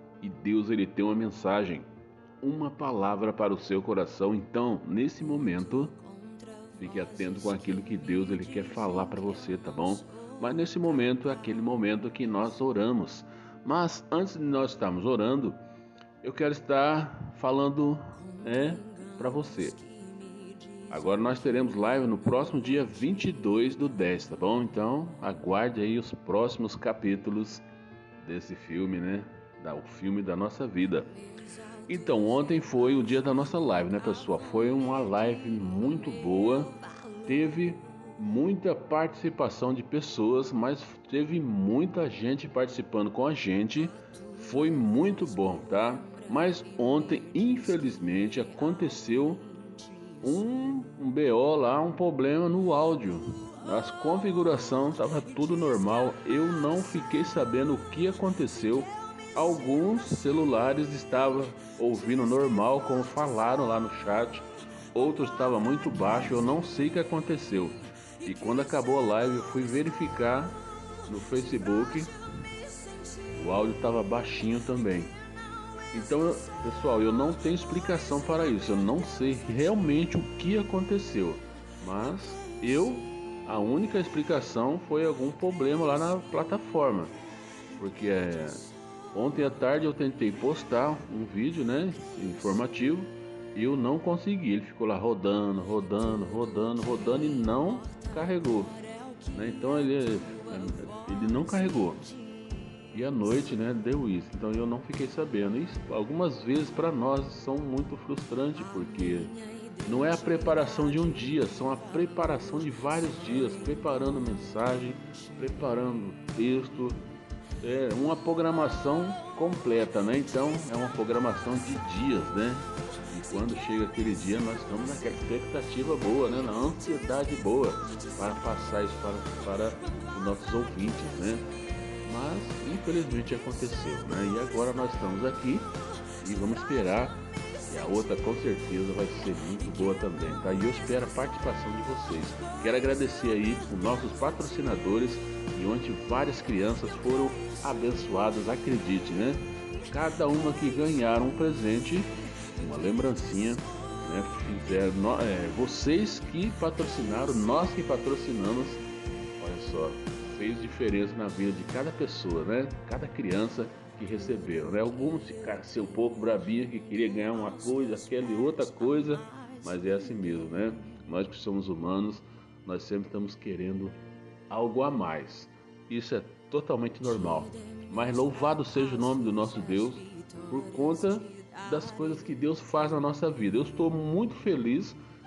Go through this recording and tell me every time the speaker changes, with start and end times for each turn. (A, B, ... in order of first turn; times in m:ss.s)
0:00.2-0:01.9 A
0:02.4-0:06.0 A
0:06.7-0:15.6 A
0:16.2-0:19.9 A
0:20.9-0:27.6 A
0:28.2-0:31.1 A
0:31.9-0:49.5 A
0:50.2-1:12.1 A
1:13.3-1:15.2 A
1:15.9-1:27.2 A
1:27.8-1:42.1 A
1:42.9-1:57.0 A
1:57.6-2:11.5 A
2:12.0-2:38.9 A
2:39.4-2:54.0 A
2:54.5-3:05.0 A